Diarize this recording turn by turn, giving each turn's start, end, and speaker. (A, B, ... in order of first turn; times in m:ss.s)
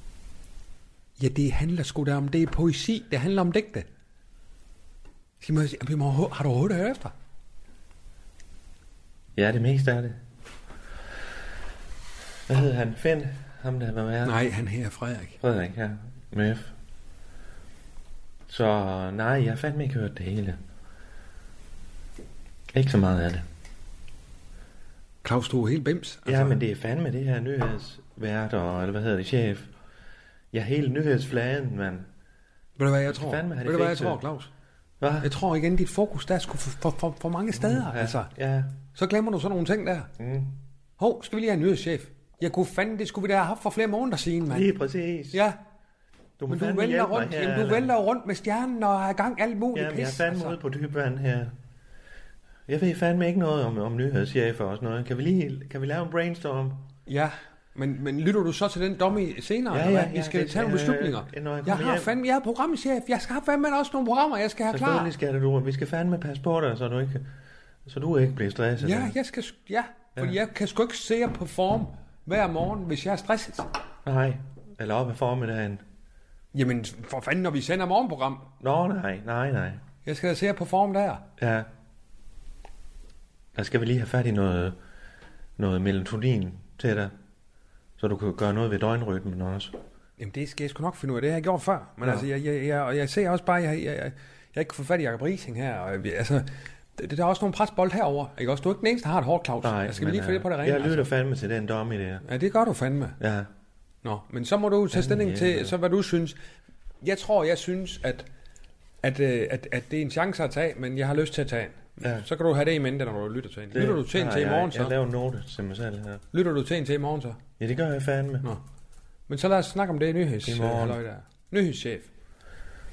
0:01.2-0:03.9 A
0:05.4-0:07.1 A
0:09.4-0:10.2 B
0:12.5-0:14.4 B
0:14.2-0:15.4 A
0:15.4-0:16.7 B
0:18.5-0:20.6 B
0:22.7-0:23.4 B
0:25.2-0:26.6 A
0:26.2-0:29.7 B
0:30.5-0:32.1 B
0:32.8-0:34.5 A
0:33.1-0:34.2 B
0:35.0-0:35.3 B
0:35.2-0:38.3 A
0:37.5-0:38.7 B
0:38.9-0:40.1 A
0:40.2-0:40.6 B
0:41.0-0:44.7 A
0:44.5-0:45.4 B
0:45.3-0:45.6 A
0:46.4-0:47.9 B
0:46.5-0:50.6 A
0:49.7-0:51.5 B
0:52.7-0:56.9 B
0:57.1-1:05.1 A
0:59.7-1:02.1 B
1:04.7-1:07.2 B
1:07.8-1:09.1 B
1:08.8-1:13.7 A
1:14.0-1:15.8 B
1:16.5-1:18.4 A
1:18.6-1:19.8 B
1:20.0-1:21.2 A
1:21.4-1:21.7 B
1:23.5-1:24.8 B
1:25.6-1:27.1 B
1:28.0-1:29.8 B
1:30.2-1:41.1 A
1:39.6-1:42.2 B
1:42.2-1:43.2 A
1:43.2-1:43.5 B
1:44.0-1:46.4 A
1:44.9-1:45.7 B
1:47.0-1:48.3 A
1:49.0-1:54.9 A
1:53.7-1:56.2 B
1:56.3-1:57.4 A
1:57.6-1:58.5 B
1:59.3-2:02.1 A
2:00.4-2:01.0 B